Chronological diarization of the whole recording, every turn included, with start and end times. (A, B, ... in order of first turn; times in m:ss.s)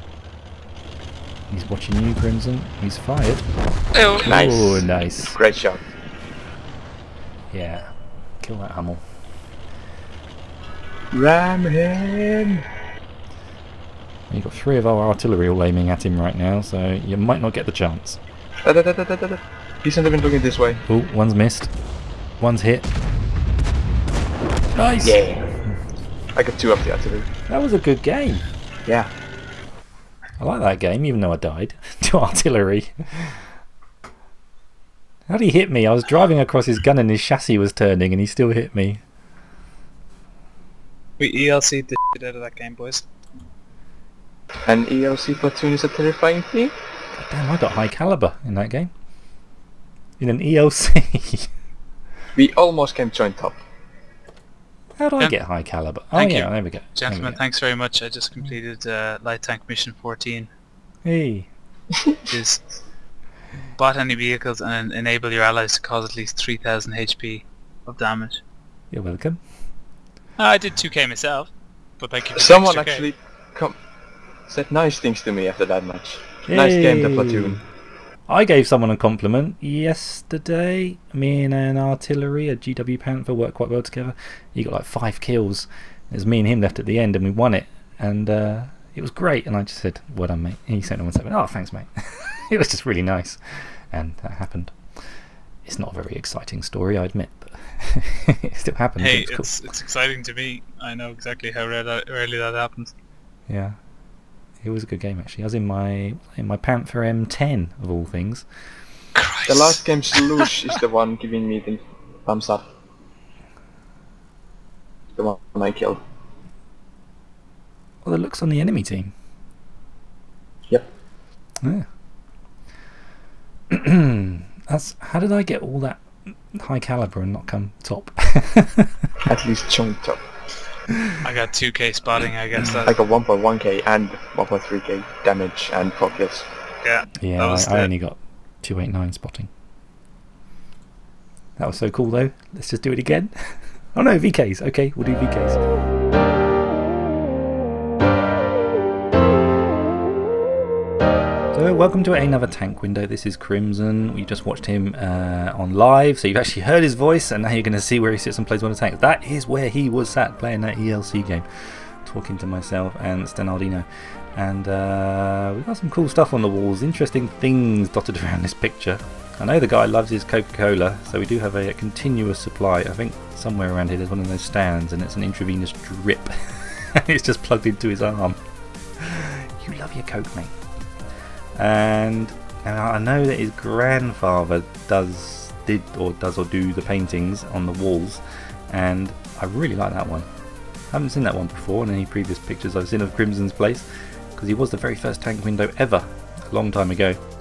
0:01.5-0:03.5 A
0:03.9-0:04.3 B
0:04.2-0:05.4 A
0:04.3-0:05.8 C
0:07.5-0:09.0 A
0:11.1-0:12.6 C
0:14.3-0:18.2 A
0:18.6-0:20.8 C
0:20.9-0:21.7 A
0:22.4-0:22.8 A
0:24.7-0:25.7 A
0:25.0-0:25.4 C
0:26.3-0:27.3 C
0:27.5-0:28.5 A
0:30.4-0:33.6 A
0:35.3-0:39.0 A
0:41.2-0:43.0 B
0:44.6-0:46.7 C
0:47.1-0:48.9 A
0:50.2-0:51.5 A
0:52.3-0:53.6 C
0:55.0-0:57.4 A
0:56.1-1:00.5 B
1:01.0-1:01.5 A
1:02.3-1:02.6 B
1:03.8-1:08.4 B
1:08.9-1:09.4 A
1:10.4-1:13.1 B
1:12.4-1:13.7 C
1:14.5-1:17.6 C
1:16.5-1:17.6 A
1:18.3-1:39.5 A
1:39.0-1:42.9 B
1:43.5-1:43.8 A
1:44.6-1:48.4 A
1:49.1-1:50.7 B
1:49.5-1:52.6 C
1:55.2-1:56.0 C
1:58.0-1:59.1 A
2:01.6-2:01.9 A
2:03.7-2:09.1 A
2:09.3-2:10.2 C
2:11.2-2:13.0 B
2:12.9-2:16.4 C
2:16.8-2:17.9 B
2:17.2-2:19.5 A
2:21.6-2:25.6 A
2:31.5-2:58.4 A
2:59.0-3:00.6 A
3:01.6-3:10.3 A
3:10.9-3:17.2 A